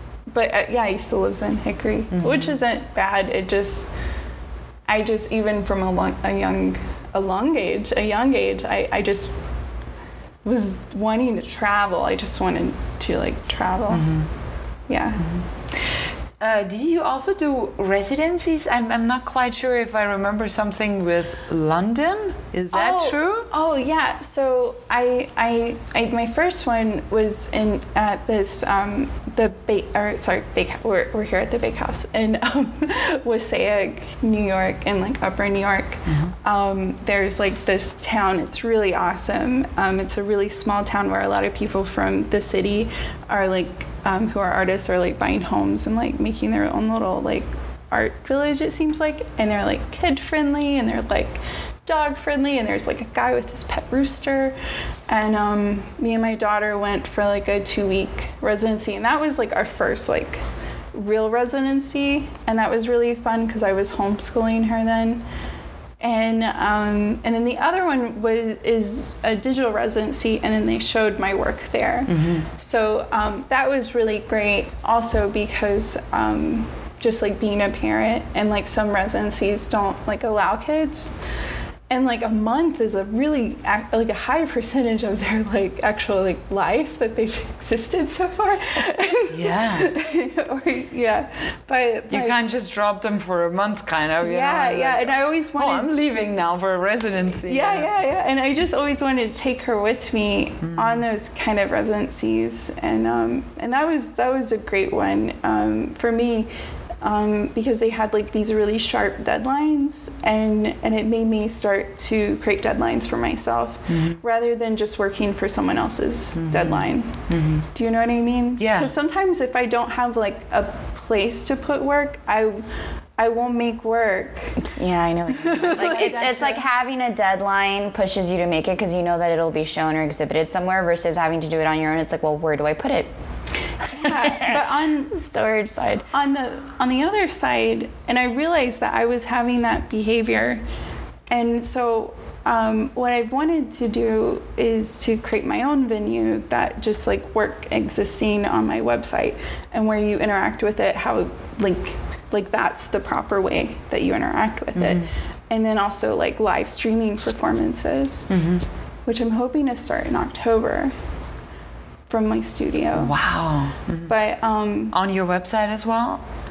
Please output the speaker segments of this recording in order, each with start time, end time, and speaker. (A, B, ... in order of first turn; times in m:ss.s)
0:00.3-0:03.9 A
0:02.1-0:02.6 B
0:04.9-0:09.4 A
0:10.4-0:14.1 A
0:13.9-0:14.3 B
0:14.9-0:15.2 A
0:16.4-0:23.5 B
0:22.7-0:54.6 A
0:36.1-0:36.4 B
0:55.1-1:05.3 A
1:06.0-1:21.1 A
1:12.1-1:12.5 B
1:21.9-1:32.4 A
1:29.3-1:29.9 B
1:32.1-1:37.9 B
1:34.2-1:36.0 A
1:37.5-1:46.5 A
1:40.6-1:41.0 B
1:47.0-1:57.2 A
1:53.9-1:54.2 B
1:56.4-1:57.7 B
1:57.7-2:02.6 A
1:58.6-1:58.9 B
2:03.2-2:04.6 A
2:04.6-2:13.1 C
2:05.4-2:06.5 A
2:05.6-2:06.6 B
2:13.8-2:16.0 C
2:13.8-2:15.2 A
2:16.1-2:20.6 A
2:21.3-2:38.3 A
2:34.8-2:35.1 B
2:38.3-2:38.6 B
2:39.1-2:41.0 A
2:42.1-2:43.1 A
2:42.9-2:44.2 B
2:44.1-2:45.0 A
2:44.9-2:46.2 B